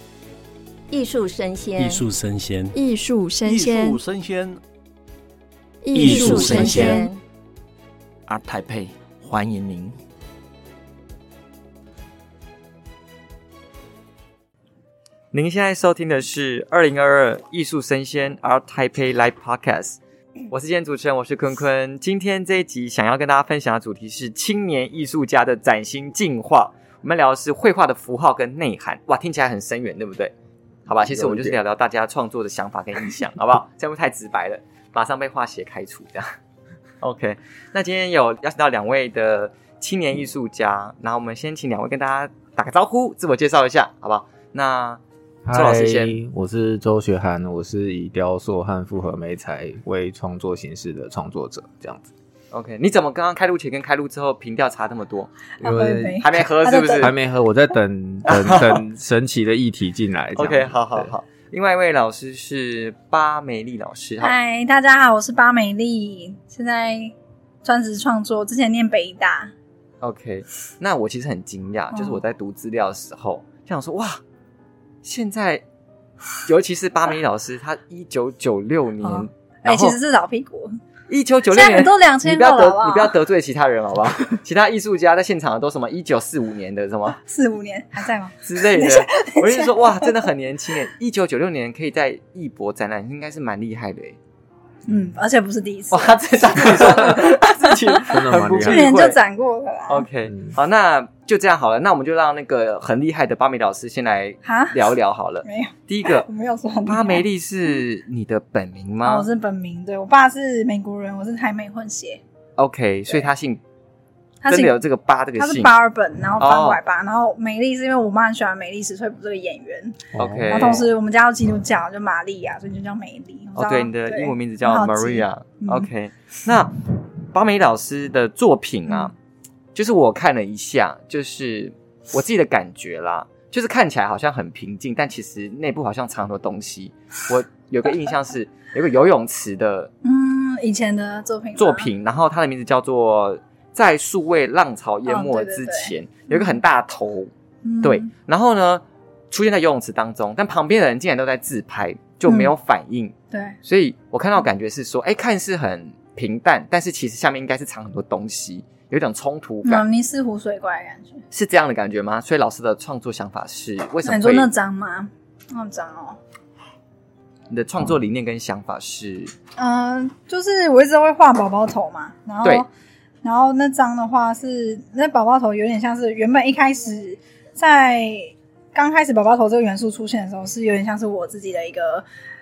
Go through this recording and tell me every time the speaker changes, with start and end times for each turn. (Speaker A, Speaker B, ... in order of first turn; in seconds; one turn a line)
Speaker A: 0.9-2.1
Speaker B: 1.8-2.8
Speaker C: 2.7-4.0
Speaker D: 3.5-4.5
Speaker B: 3.6-4.6
Speaker C: 5.8-7.1
Speaker D: 5.9-7.0
Speaker B: 5.9-7.0
Speaker A: 6.1-7.2
Speaker D: 8.3-10.0
Speaker E: 15.3-20.0
Speaker E: 20.5-30.3
Speaker E: 30.9-36.4
Speaker F: 31.0-31.6
Speaker E: 37.0-45.0
Speaker F: 45.5-52.1
Speaker E: 45.5-46.2
Speaker E: 52.5-55.3
Speaker F: 55.6-56.3
Speaker G: 55.6-57.1
Speaker E: 56.2-57.1
Speaker F: 57.0-61.1
Speaker E: 58.3-58.8
Speaker E: 60.4-64.3
Speaker G: 64.2-69.5
Speaker E: 70.0-74.2
Speaker G: 71.9-72.2
Speaker E: 75.0-75.6
Speaker E: 76.4-80.0
Speaker G: 79.0-80.7
Speaker E: 81.1-87.2
Speaker G: 81.5-83.2
Speaker G: 87.2-90.2
Speaker E: 88.5-94.2
Speaker G: 94.9-98.1
Speaker E: 95.9-99.2
Speaker F: 98.1-98.9
Speaker G: 98.6-100.1
Speaker E: 99.9-106.3
Speaker F: 100.3-100.5
Speaker G: 104.4-104.9
Speaker G: 105.4-107.3
Speaker E: 106.9-109.3
Speaker G: 109.0-112.2
Speaker E: 112.6-113.6
Speaker G: 114.4-114.8
Speaker E: 114.5-115.7
Speaker G: 115.4-125.9
Speaker E: 116.4-116.8
Speaker F: 120.1-120.8
Speaker E: 120.2-120.9
Speaker E: 123.6-129.1
Speaker G: 128.9-129.1
Speaker E: 129.8-139.9
Speaker G: 140.0-141.9
Speaker E: 141.6-147.3
Speaker G: 145.1-146.6
Speaker G: 147.7-148.1
Speaker E: 147.8-159.8
Speaker G: 152.2-152.5
Speaker G: 153.3-153.6
Speaker G: 159.6-161.2
Speaker E: 161.3-164.5
Speaker G: 164.0-166.2
Speaker E: 167.5-169.3
Speaker G: 169.6-172.7
Speaker G: 173.2-182.1